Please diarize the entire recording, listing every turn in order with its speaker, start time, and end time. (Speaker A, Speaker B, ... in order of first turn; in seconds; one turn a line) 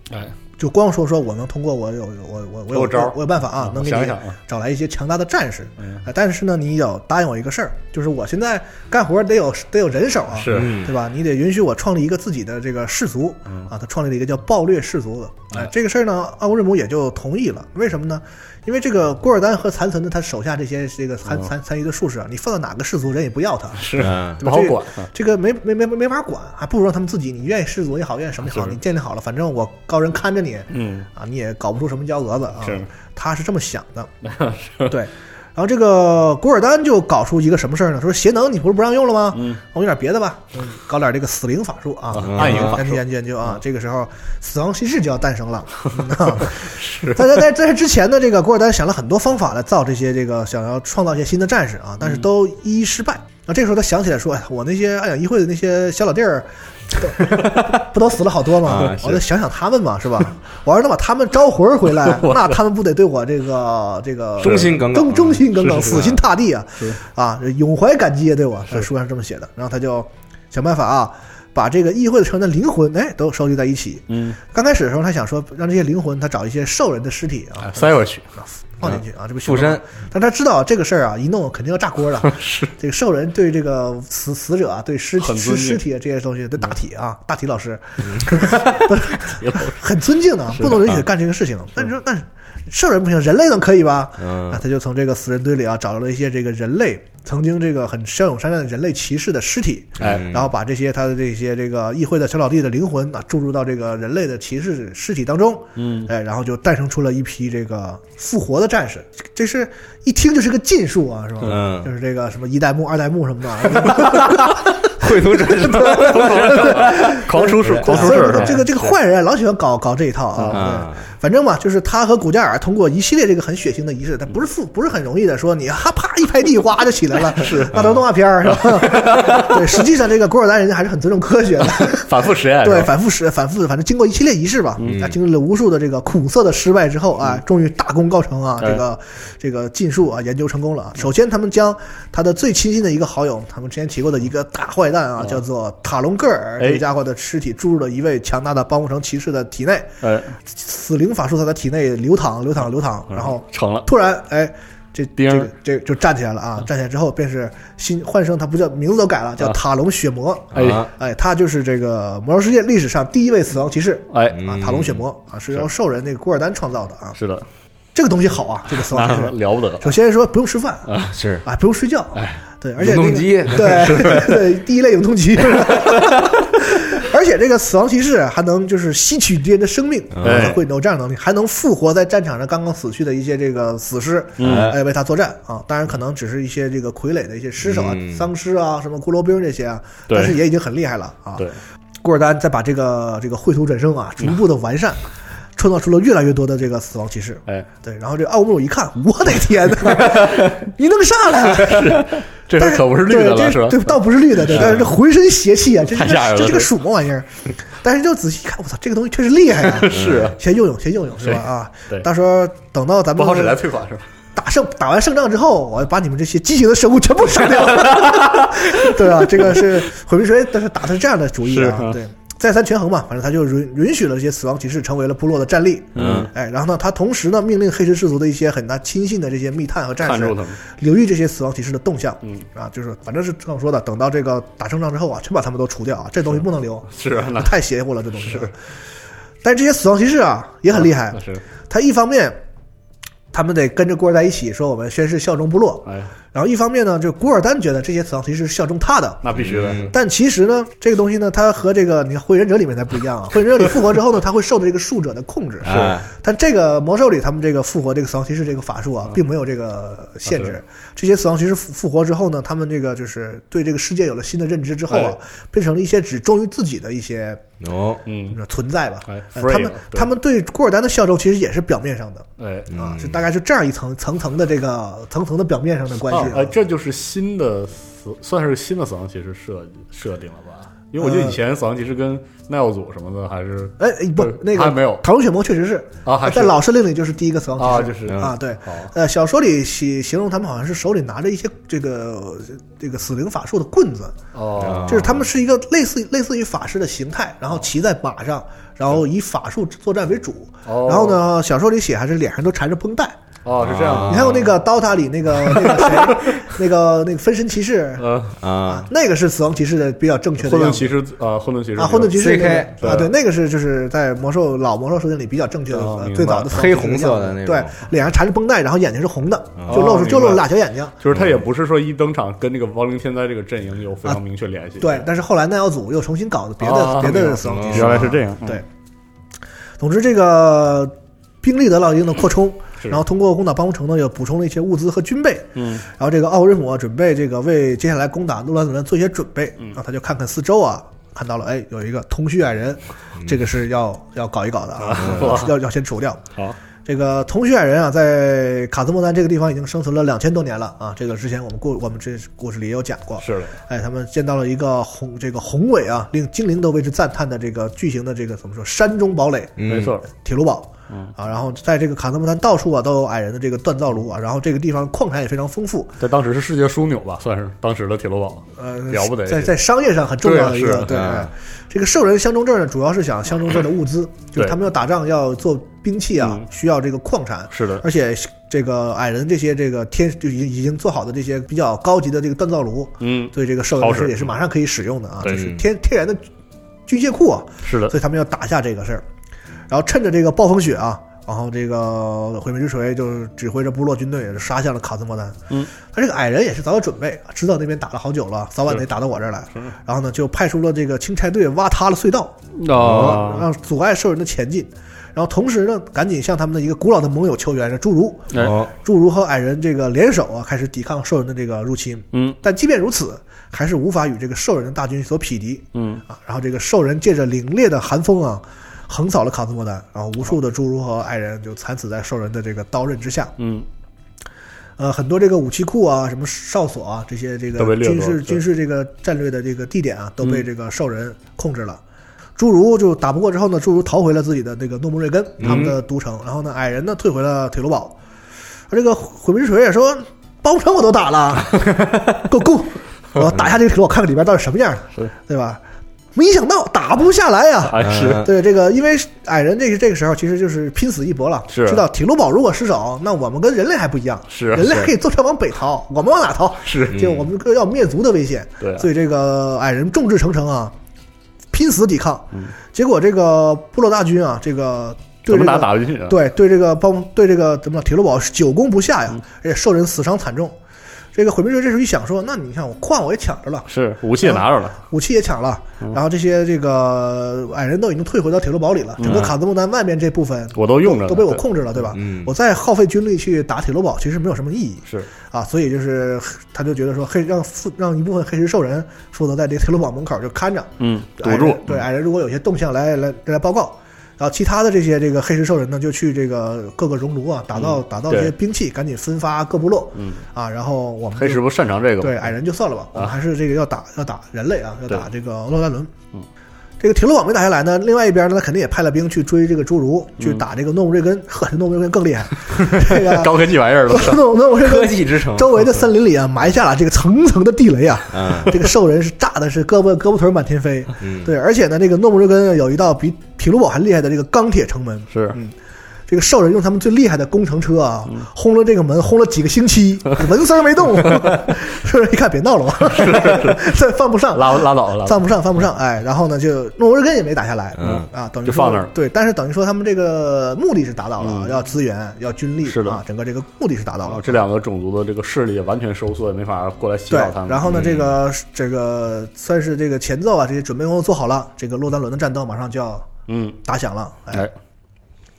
Speaker A: 0.6-34.1
Speaker B: 2.7-4.4
Speaker B: 10.3-10.8
Speaker C: 10.5-10.9
Speaker B: 23.8-25.1
Speaker C: 24.0-24.4
Speaker B: 28.5-28.8
Speaker B: 30.7-31.1
Speaker B: 34.2-34.9
Speaker A: 34.9-149.9
Speaker B: 39.3-39.6
Speaker B: 42.1-43.0
Speaker C: 42.2-42.8
Speaker B: 46.4-47.4
Speaker C: 58.6-59.2
Speaker B: 62.0-62.6
Speaker C: 64.4-65.4
Speaker B: 64.4-64.8
Speaker B: 65.5-66.2
Speaker B: 74.1-74.4
Speaker B: 77.6-78.2
Speaker C: 78.8-79.8
Speaker B: 82.2-82.7
Speaker B: 85.2-85.8
Speaker C: 88.1-88.8
Speaker B: 89.3-89.8
Speaker B: 90.5-91.0
Speaker C: 94.2-94.6
Speaker B: 100.0-100.3
Speaker C: 100.0-100.5
Speaker B: 105.8-106.1
Speaker C: 111.4-111.9
Speaker C: 113.9-114.3
Speaker C: 115.0-118.5
Speaker B: 115.9-118.9
Speaker B: 120.3-120.6
Speaker C: 120.5-121.0
Speaker B: 127.3-127.8
Speaker C: 127.7-128.0
Speaker B: 128.4-129.6
Speaker B: 131.8-132.9
Speaker C: 134.8-135.2
Speaker B: 150.0-150.3
Speaker A: 150.4-167.2
Speaker B: 153.1-153.9
Speaker B: 155.2-155.5
Speaker B: 160.5-160.9
Speaker C: 160.5-160.9
Speaker B: 164.1-164.4
Speaker C: 164.3-165.0
Speaker B: 167.2-167.4
Speaker A: 167.9-170.9
Speaker B: 168.9-169.9
Speaker B: 170.9-171.1
Speaker C: 171.1-171.4
Speaker A: 171.4-191.5
Speaker B: 172.1-172.4
Speaker C: 172.8-174.4
Speaker C: 180.1-180.6
Speaker B: 180.2-180.6
Speaker B: 184.4-184.7
Speaker C: 184.4-184.8
Speaker C: 187.6-188.3
Speaker B: 190.1-190.4
Speaker A: 192.0-195.0
Speaker A: 195.6-213.6
Speaker B: 200.0-200.4
Speaker B: 201.5-204.0
Speaker B: 204.5-204.9
Speaker B: 205.9-206.7
Speaker B: 209.6-210.4
Speaker C: 209.9-210.3
Speaker B: 211.2-212.1
Speaker B: 213.1-214.0
Speaker A: 214.3-238.5
Speaker B: 217.6-218.7
Speaker B: 219.4-219.6
Speaker B: 221.4-222.0
Speaker B: 225.9-226.3
Speaker C: 225.9-226.3
Speaker B: 230.0-230.6
Speaker B: 236.3-237.6
Speaker B: 238.2-238.5
Speaker A: 239.4-242.4
Speaker B: 240.8-241.4
Speaker A: 243.3-249.2
Speaker B: 245.8-246.1
Speaker B: 249.2-249.9
Speaker C: 249.3-249.9
Speaker A: 249.8-267.4
Speaker C: 255.6-256.0
Speaker B: 255.7-256.0
Speaker B: 264.9-265.1
Speaker C: 267.6-268.0
Speaker B: 268.1-268.4
Speaker A: 268.3-276.5
Speaker B: 269.1-270.1
Speaker B: 272.4-272.7
Speaker C: 272.7-273.2
Speaker B: 276.1-285.0
Speaker A: 281.0-281.4
Speaker A: 283.8-294.1
Speaker B: 286.0-286.6
Speaker B: 287.6-288.9
Speaker C: 288.1-288.3
Speaker B: 294.3-295.1
Speaker C: 294.6-295.2
Speaker A: 294.8-303.2
Speaker B: 300.6-301.2
Speaker B: 303.4-304.5
Speaker C: 303.6-304.4
Speaker A: 303.9-308.1
Speaker B: 305.5-306.3
Speaker B: 308.0-308.3
Speaker C: 308.4-308.9
Speaker A: 308.7-310.9
Speaker B: 310.4-313.1
Speaker A: 311.8-320.9
Speaker C: 312.1-312.9
Speaker B: 315.7-316.5
Speaker C: 316.5-317.8
Speaker C: 319.6-319.8
Speaker B: 319.7-320.4
Speaker B: 321.0-325.1
Speaker A: 324.8-328.6
Speaker B: 326.6-328.6
Speaker C: 327.3-328.1
Speaker A: 329.8-346.2
Speaker B: 335.5-335.8
Speaker B: 344.8-345.6
Speaker A: 346.8-359.5
Speaker B: 353.2-353.5
Speaker C: 359.6-359.9
Speaker B: 359.6-360.0
Speaker A: 360.1-365.9
Speaker B: 366.0-369.5
Speaker A: 368.6-386.2
Speaker B: 370.2-371.1
Speaker C: 370.9-371.3
Speaker B: 377.5-377.8
Speaker B: 383.0-384.3
Speaker C: 385.2-385.6
Speaker A: 386.9-389.0
Speaker B: 387.6-387.9
Speaker A: 389.7-423.3
Speaker B: 402.6-403.5
Speaker C: 402.7-403.2
Speaker C: 408.3-408.7
Speaker B: 415.7-416.0
Speaker B: 423.4-423.6
Speaker A: 424.8-431.8
Speaker B: 427.6-428.4
Speaker A: 432.4-437.9
Speaker C: 435.4-435.7
Speaker B: 435.4-435.7
Speaker A: 438.7-445.6
Speaker A: 446.1-460.7
Speaker B: 447.7-448.3
Speaker C: 447.8-448.3
Speaker B: 451.5-451.8
Speaker B: 454.3-454.9
Speaker B: 456.6-457.0
Speaker C: 456.9-457.3
Speaker B: 458.6-458.9
Speaker A: 461.5-470.6
Speaker B: 465.2-466.2
Speaker A: 471.1-473.7
Speaker B: 473.7-474.8
Speaker A: 474.2-501.4
Speaker B: 479.0-479.3
Speaker B: 480.6-481.4
Speaker C: 481.9-482.3
Speaker B: 490.8-491.6
Speaker B: 497.5-498.3
Speaker B: 499.9-500.2
Speaker B: 501.2-502.3
Speaker A: 502.0-505.9
Speaker A: 506.8-513.3
Speaker B: 512.7-514.2
Speaker A: 513.9-525.5
Speaker C: 514.6-515.6
Speaker C: 518.1-518.5
Speaker C: 521.0-521.3
Speaker B: 525.1-525.4
Speaker A: 526.1-544.4
Speaker B: 532.9-533.6
Speaker B: 534.3-535.2
Speaker C: 537.8-538.1
Speaker B: 537.8-538.9
Speaker B: 541.2-541.6
Speaker B: 542.7-543.0
Speaker B: 544.1-547.8
Speaker A: 547.1-553.1
Speaker C: 547.7-548.1
Speaker B: 553.3-553.6
Speaker A: 553.6-554.5